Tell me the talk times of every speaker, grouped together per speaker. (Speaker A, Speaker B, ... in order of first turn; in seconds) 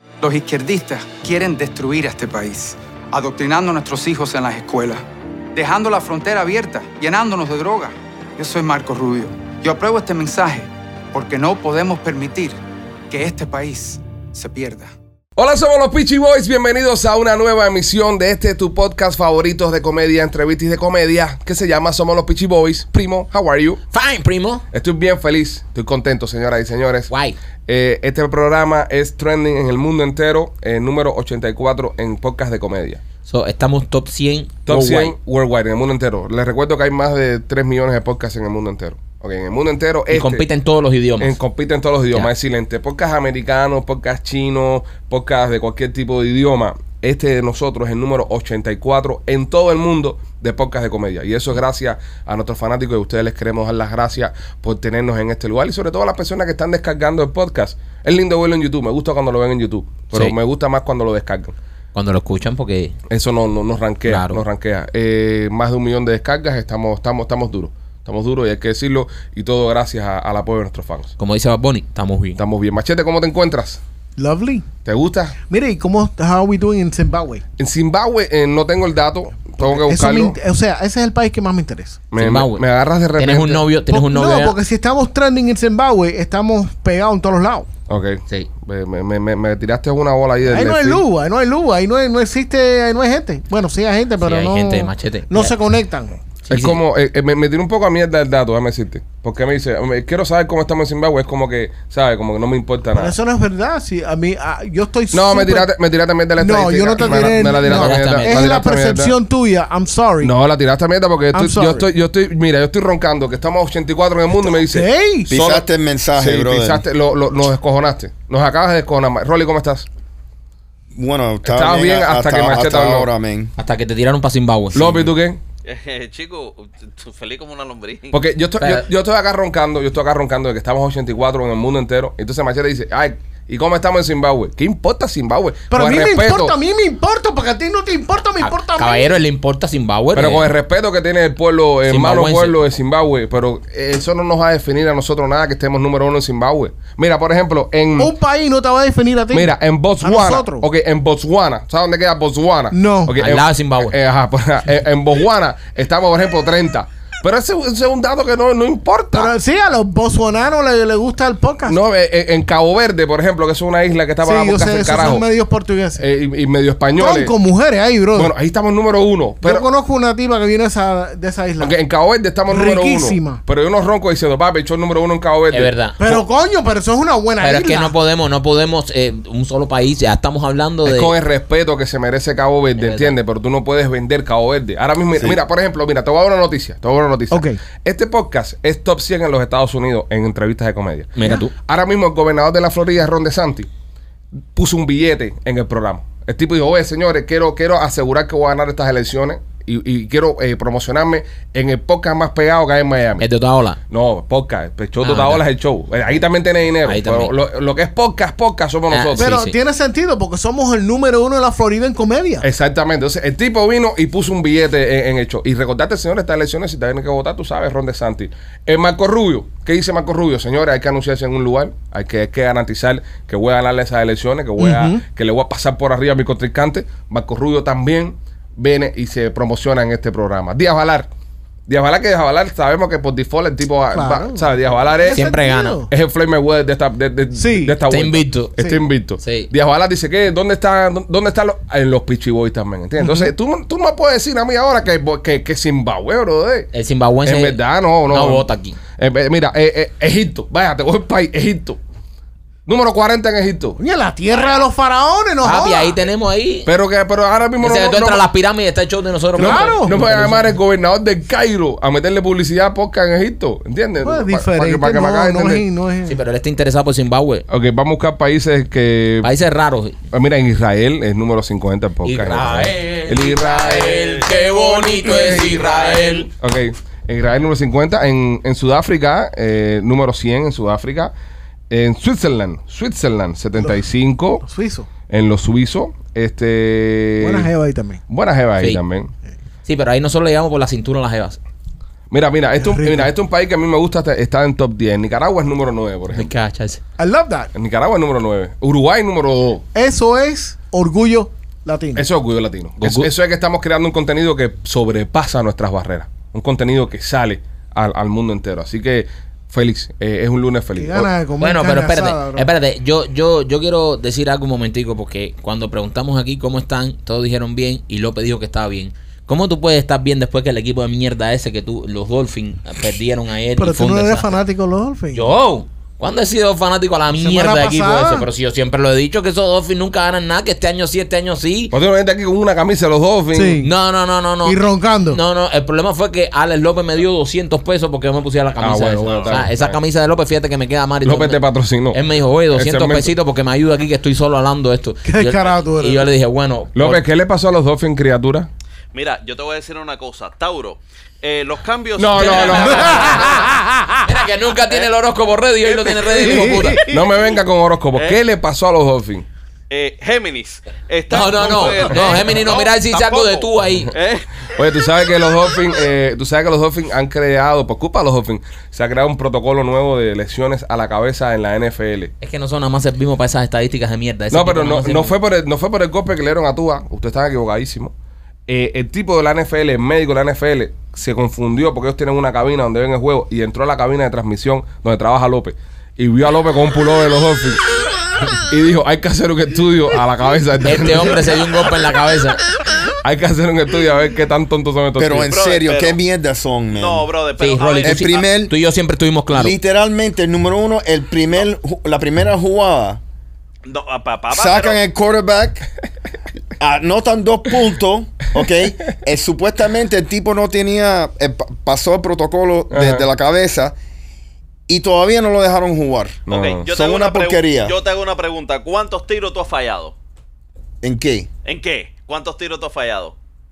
Speaker A: 0.2-5.0, 5.5-12.6, 13.1-14.9
Speaker B: 15.3-23.8, 24.7-27.1, 27.7-33.0, 34.6-40.5, 41.2-61.5, 63.1-71.1, 72.3-73.8, 74.8-75.3, 77.6-80.4, 82.1-83.7, 87.9-91.0, 96.5-103.2, 105.1-109.2, 110.2-119.9, 121.4-123.1, 124.7-125.4, 128.1-136.6, 140.1-148.1, 149.3-159.3, 161.7-165.3, 166.0-167.3, 168.1-169.7, 171.6-176.2, 180.8-193.7, 194.5-203.2, 203.9-209.3, 212.4-231.1, 231.7-235.3, 235.9-246.7, 247.2-251.8, 252.7-253.8, 256.6-258.2, 259.4-265.7, 267.5-269.3, 270.1-274.0, 276.4-281.1, 281.7-284.4, 285.1-287.5, 288.1-289.1, 292.1-296.3, 297.5-299.6, 301.9-311.1, 331.7-333.6, 338.6-339.8, 341.0-343.1, 346.7-348.5, 351.9-353.2, 356.2-359.2, 364.5-372.1, 374.3-377.9, 378.5-387.6, 388.3-391.5, 392.9-395.3, 412.7-413.1, 416.3-416.6
Speaker C: 23.9-24.6, 27.1-27.4, 33.2-35.1, 40.1-41.4, 61.9-63.0, 64.1-64.4, 71.2-72.4, 82.1-82.6, 83.2-84.6, 94.2-95.5, 96.5-96.8, 107.0-108.6, 123.6-125.1, 128.6-128.8, 138.4-140.5, 141.9-142.6, 153.2-153.9, 175.5-176.0, 177.4-181.1, 182.8-183.1, 191.1-191.5, 203.2-203.8, 205.0-205.4, 206.8-207.3, 208.9-209.6, 235.1-235.8, 237.9-238.5, 239.2-239.5, 246.7-248.8, 255.4-256.7, 257.6-260.5, 266.0-267.4, 269.2-270.0, 272.0-276.3, 289.6-291.4, 296.1-296.8, 302.8-303.1, 311.4-324.3, 325.1-331.7, 333.6-347.0, 352.2-353.3, 354.0-356.9, 361.1-363.9, 372.2-375.1, 390.6-392.4, 397.4-399.5
Speaker D: 74.2-74.7, 75.5-77.4, 79.6-82.0, 83.9-87.7, 90.5-96.2, 102.9-105.7, 106.4-110.3, 111.3-111.8, 114.5-115.3, 135.7-139.2, 148.0-150.7, 152.7-153.2, 159.1-161.8, 164.2-166.0, 167.0-168.3, 169.4-171.8, 172.5-173.4, 176.0-177.9, 187.3-187.6, 209.2-212.4, 224.6-225.0, 233.9-235.9, 237.3-237.8, 243.0-243.3, 253.8-256.0, 259.4-260.0, 264.0-266.2, 284.4-284.9, 287.2-288.0, 292.6-293.1, 297.0-297.5, 299.7-302.1, 310.8-312.5, 323.6-325.3, 327.1-328.3, 333.3-333.7, 334.4-335.2, 345.0-346.1, 352.7-354.0, 356.2-356.7
Speaker E: 115.3-116.8, 120.9-123.5, 395.0-397.1, 397.8-398.5, 399.3-403.0, 404.3-405.7, 406.6-413.7, 414.7-417.7, 420.8-421.3
Speaker F: 125.6-128.2, 273.9-276.0, 339.0-339.4, 348.9-353.5, 355.6-356.9, 359.7-364.4, 395.3-396.0, 396.7-398.3, 403.6-404.8, 416.3-419.9, 421.4-423.1